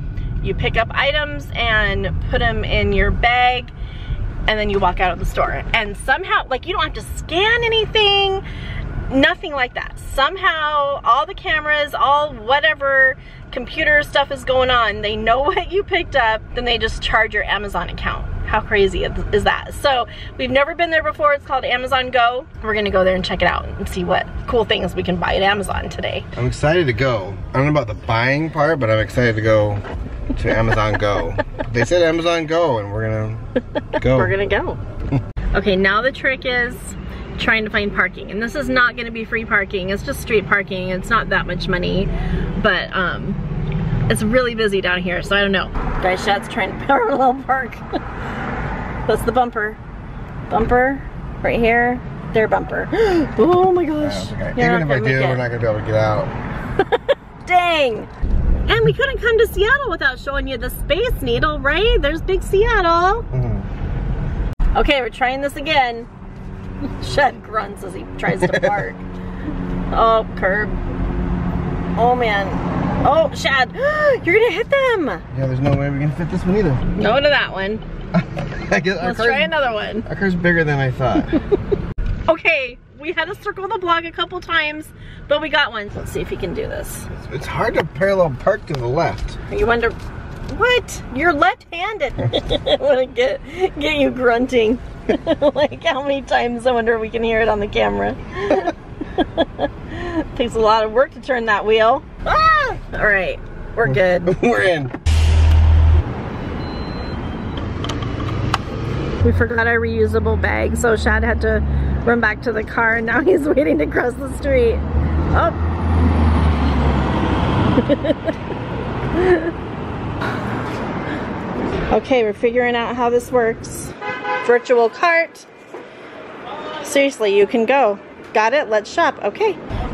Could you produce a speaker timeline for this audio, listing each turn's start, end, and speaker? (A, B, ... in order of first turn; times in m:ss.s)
0:00.4-0:03.7 A
0:04.5-0:08.4 A
0:09.1-0:26.2 A
0:26.4-0:33.4 B
0:34.0-0:34.8 A
0:34.0-0:34.4 B
0:35.5-0:43.4 A
0:44.1-0:47.8 A
0:49.0-0:49.8 A
0:50.5-0:55.4 A
0:54.0-0:56.3 B
0:56.9-0:58.1 A
0:58.6-1:03.3 A
1:03.3-1:03.7 B
1:04.7-1:06.1 A
1:07.0-1:09.0 A
1:08.4-1:08.8 B
1:09.9-1:10.8 A
1:12.0-1:15.2 A
1:15.3-1:16.8 B
1:16.9-1:17.8 A
1:18.2-1:19.5 B
1:19.0-1:20.1 A
1:20.0-1:21.4 B
1:22.3-1:27.1 A
1:27.1-1:29.4 B
1:29.5-1:30.0 A
1:30.5-1:44.3 A
1:43.8-1:44.9 B
1:49.2-1:55.6 A
1:57.7-1:58.3 A
1:59.1-1:59.5 A
2:01.9-2:05.5 A
2:06.8-2:09.6 A